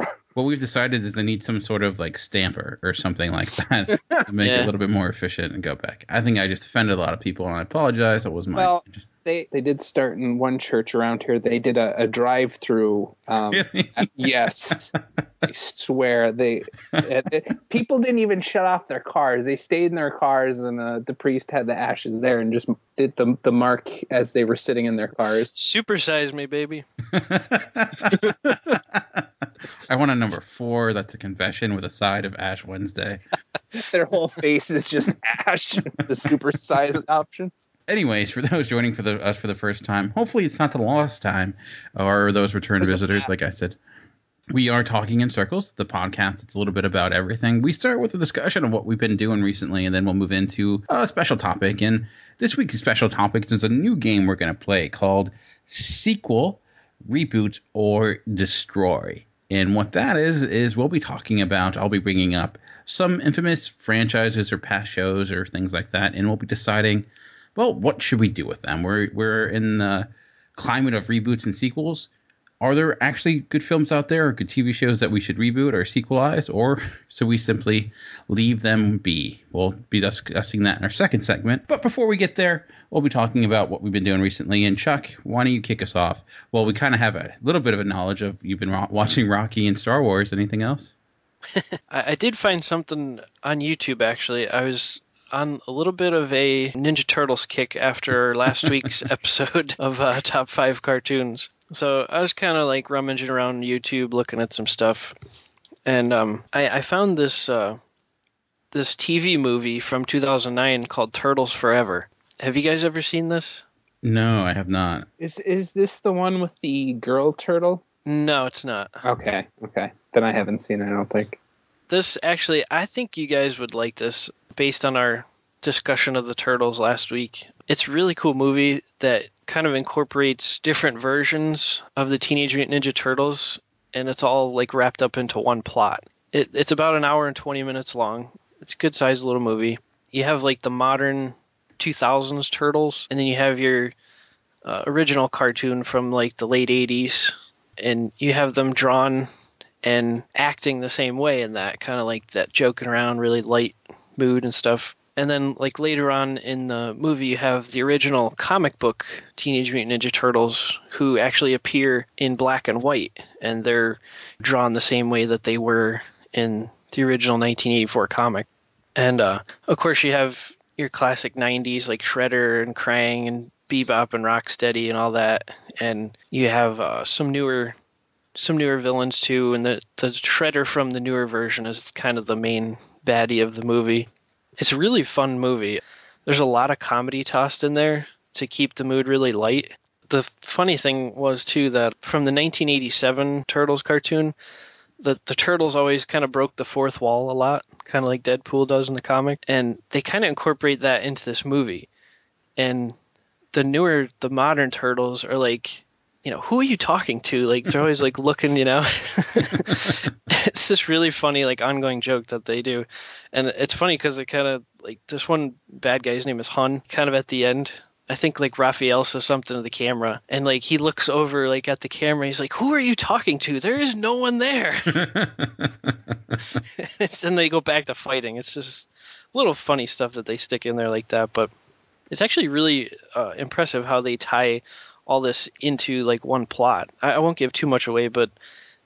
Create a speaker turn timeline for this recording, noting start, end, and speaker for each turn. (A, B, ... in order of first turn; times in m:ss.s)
0:00.3-0:08.9 A
0:04.4-0:04.7 B
0:08.6-0:25.6 C
0:13.5-0:14.1 A
0:25.5-0:26.8 B
0:27.1-0:29.0 A
0:29.9-0:33.2 A
0:33.8-0:37.5 C
0:37.9-0:43.8 A
0:42.8-0:43.2 C
0:44.5-1:12.1 A
1:12.6-1:30.9 A
1:31.9-1:45.2 B
1:45.8-1:47.8 B
1:48.7-1:53.6 B
1:54.0-1:55.1 A
1:55.2-1:57.8 C
1:58.1-1:59.0 B
1:59.0-2:01.4 C
2:01.9-2:23.9 B
2:24.6-2:29.3 B
2:29.8-2:57.8 B
2:58.4-3:04.1 B
3:04.6-3:14.4 B
3:15.0-3:21.9 B
3:22.6-3:23.0 B
3:23.5-3:45.1 B
3:45.0-3:45.5 A
3:46.8-3:51.5 B
3:52.1-3:58.3 B